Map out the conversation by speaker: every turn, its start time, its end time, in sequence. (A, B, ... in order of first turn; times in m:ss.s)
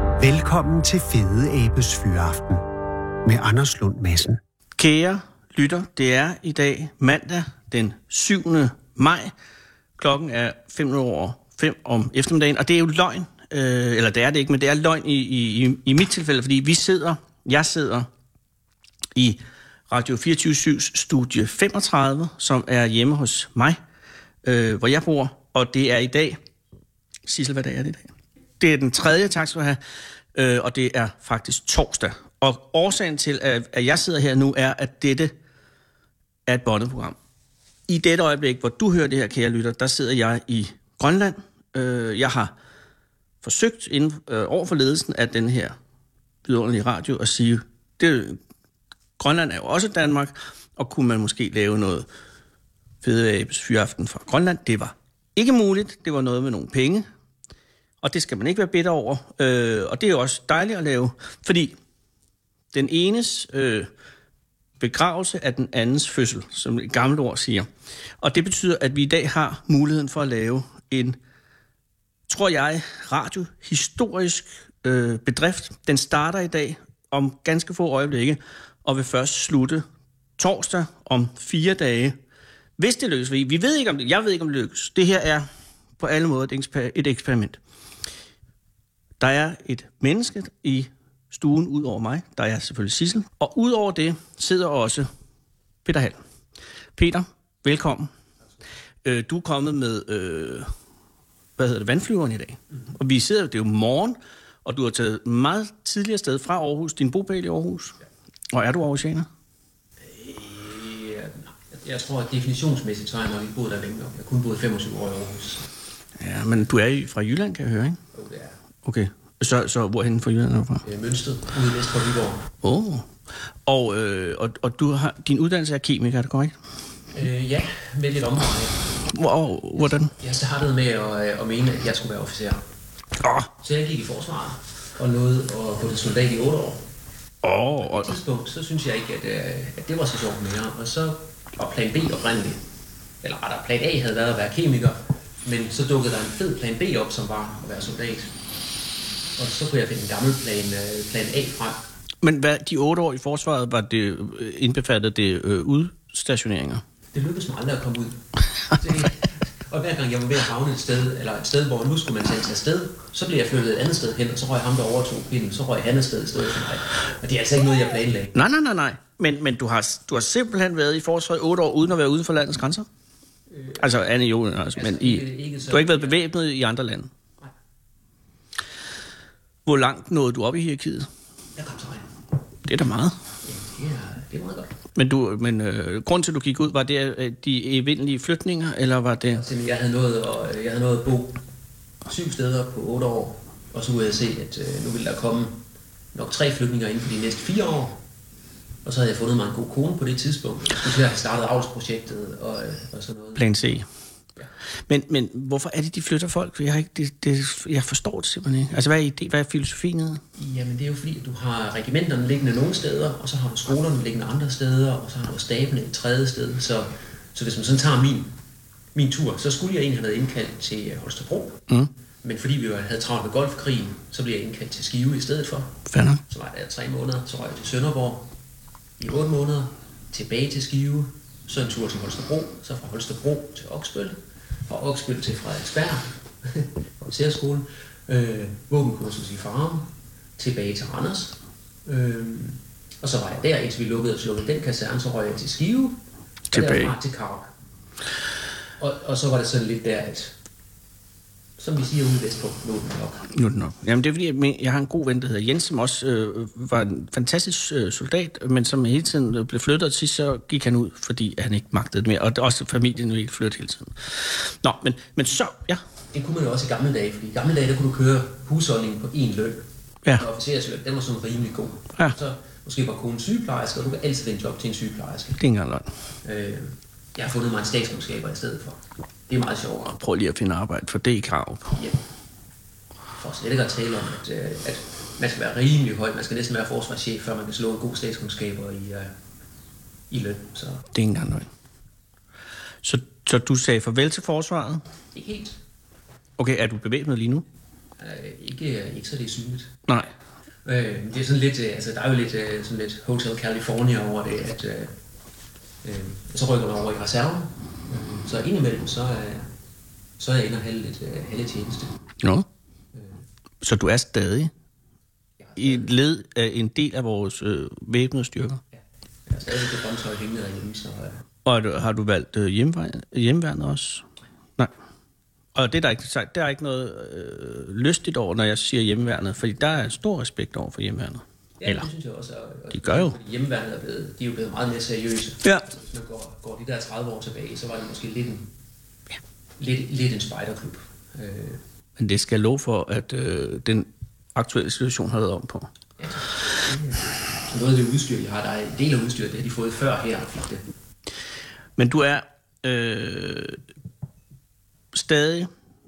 0:00.2-0:02.6 A
0:03.2-0:04.4 A
0:04.8-0:09.3 B
0:10.0-0:18.1 B
0:19.2-0:23.8 B
0:24.4-0:26.4 B
0:27.3-0:29.8 B
0:30.3-0:35.3 B
0:36.5-0:37.2 B
0:37.9-0:42.5 B
0:43.4-0:45.8 B
0:46.4-0:48.4 B
0:49.2-0:52.0 B
0:53.0-0:57.1 B
0:58.0-1:01.8 B
1:02.7-1:03.9 B
1:04.8-1:07.7 B
1:08.2-1:11.2 B
1:12.3-1:19.8 B
1:20.4-1:22.2 B
1:22.8-1:25.4 B
1:26.0-1:27.6 B
1:29.2-1:35.1 B
1:35.8-1:36.2 B
1:37.0-1:38.1 B
1:39.0-1:40.7 B
1:41.6-1:48.0 B
1:48.5-1:49.3 B
1:50.0-1:55.7 C
1:56.2-1:58.0 B
1:58.1-1:58.6 C
1:58.8-2:00.8 B
2:00.8-2:02.5 C
2:02.6-2:03.1 B
2:03.7-2:06.6 B
2:07.1-2:08.8 C
2:09.1-2:10.1 B
2:10.2-2:12.6 C
2:13.2-2:13.5 B
2:13.6-2:16.8 C
2:17.4-2:18.1 B
2:17.8-2:22.6 C
2:23.2-2:28.3 C
2:29.4-2:31.8 C
2:32.2-2:36.8 B
2:37.1-2:48.3 C
2:48.3-2:52.9 B
2:53.5-2:54.0 C
2:53.8-2:57.1 B
2:54.7-2:56.2 C
2:59.7-3:01.1 B
3:01.6-3:02.1 C
3:02.6-3:03.1 B
3:03.4-3:04.7 C
3:05.0-3:09.4 B
3:09.3-3:11.4 C
3:12.0-3:15.6 C
3:16.1-3:18.0 C
3:18.8-3:23.4 C
3:23.4-3:23.8 B
3:24.9-3:30.2 B
3:30.4-3:38.3 C
3:38.9-3:41.6 C
3:42.2-3:45.8 C
3:45.9-3:46.2 B
3:46.3-3:48.3 C
3:49.0-3:54.2 C
3:54.7-4:06.0 C
4:06.5-4:06.9 B
4:06.5-4:07.5 C
4:08.8-4:10.3 C
4:11.6-4:13.3 C
4:13.3-4:25.8 B
4:26.1-4:35.4 C
4:35.4-4:35.9 B
4:36.2-4:39.9 C
4:39.9-4:41.8 B
4:41.7-4:42.0 C
4:43.2-4:49.1 C
4:50.1-4:50.8 C
4:50.9-4:51.5 B
4:52.8-4:54.8 B
4:55.1-4:55.6 C
4:56.4-4:57.4 B
4:58.0-4:59.8 C
5:00.6-5:04.9 C
5:05.8-5:09.5 C
5:10.2-5:11.9 C
5:12.2-5:12.5 B
5:12.9-5:13.2 C
5:13.6-5:14.5 B
5:15.4-5:15.9 C
5:15.6-5:18.6 B
5:18.7-5:21.2 C
5:21.4-5:24.7 B
5:25.6-5:31.8 B
5:31.6-5:38.5 C
5:32.8-5:33.2 B
5:39.6-5:41.6 C
5:42.0-5:45.7 B
5:46.0-5:50.6 C
5:51.8-5:53.6 B
5:54.9-5:55.5 B